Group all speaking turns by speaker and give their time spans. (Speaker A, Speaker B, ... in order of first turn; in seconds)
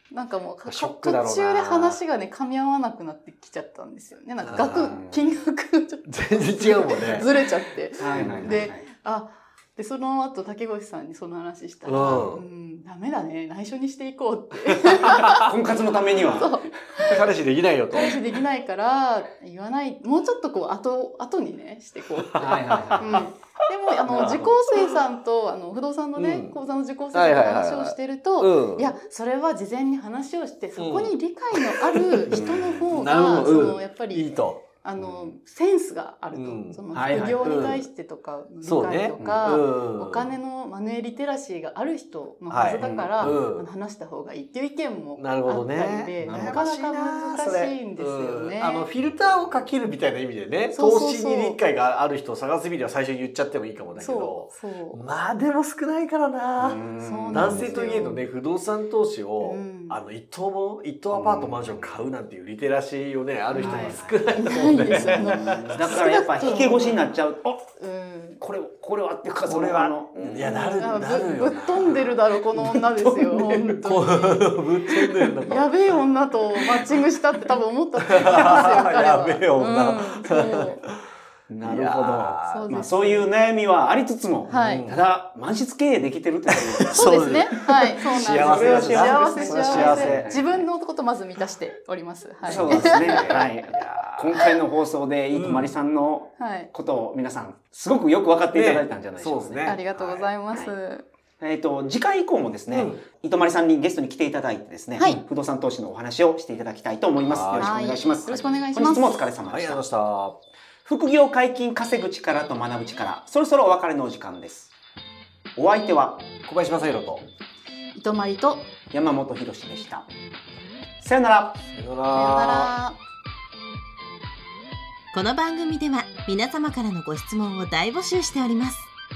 Speaker A: 0.1-17.3, 17.9-48.9, 50.7-51.6, 54.0-55.0, 57.0-58.2, 59.4-60.0, 63.5-67.1, 67.8-68.4, 70.5-74.7, 75.5-80.8, 82.5-83.3, 84.5-84.9, 86.9-93.5, 96.4-96.7, 99.7-101.1, 107.6-109.3, 118.0-118.7, 122.1-123.0
Speaker B: 0.7-2.0, 4.4-4.9, 6.1-7.5, 8.1-8.6, 11.9-12.4, 15.1-15.4, 17.0-18.2, 22.2-23.3, 24.1-24.9, 26.2-26.6, 27.1-29.0, 30.8-34.6, 36.3-36.8, 37.4-37.9, 38.6-40.3, 42.5-43.7, 45.2-56.8, 57.3-66.1, 69.5-76.0, 76.6-77.0, 78.1-80.9, 81.6-82.7, 84.5-85.0, 86.6-90.4, 92.5-94.5, 95.3-95.7, 98.5-100.3, 102.7-103.0, 107.2-107.8, 109.4-110.4, 116.4-117.3, 121.7-122.8
Speaker C: 4.5-5.4, 8.0-8.8, 11.9-12.3, 15.3-16.6, 22.4-23.3, 32.3-32.9, 35.0-35.4, 36.9-37.6, 42.8-43.4, 46.2-46.6, 56.6-57.8, 61.1-62.0, 63.6-67.7, 68.4-71.2, 81.5-87.4, 88.0-90.7, 92.5-99.8, 101.4-109.8, 110.8-114.7, 115.6-116.3, 118.9-120.1, 121.0-121.6
Speaker D: 125.1-128.9